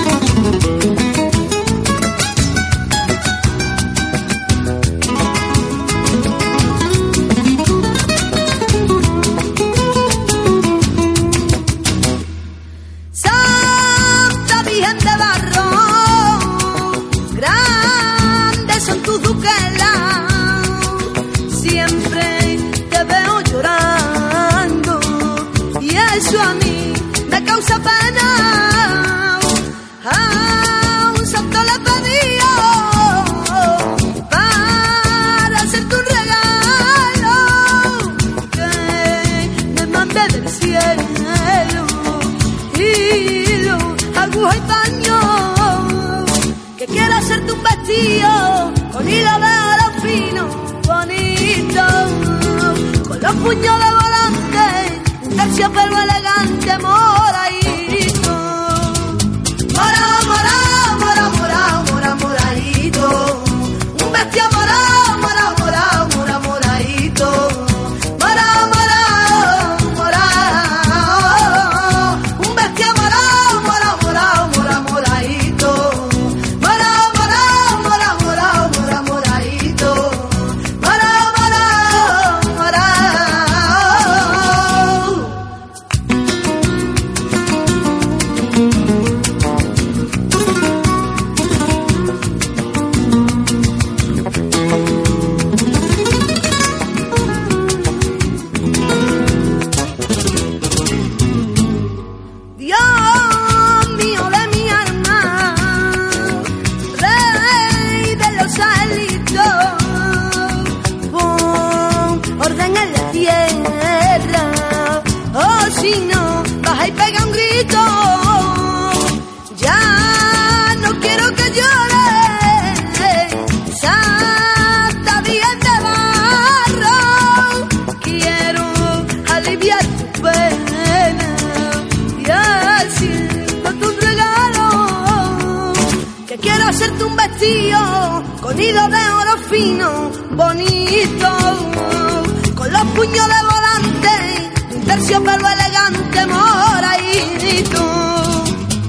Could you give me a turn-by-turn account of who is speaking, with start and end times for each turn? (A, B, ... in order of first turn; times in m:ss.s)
0:13.1-1:25.4 A
1:42.6-2:28.6 A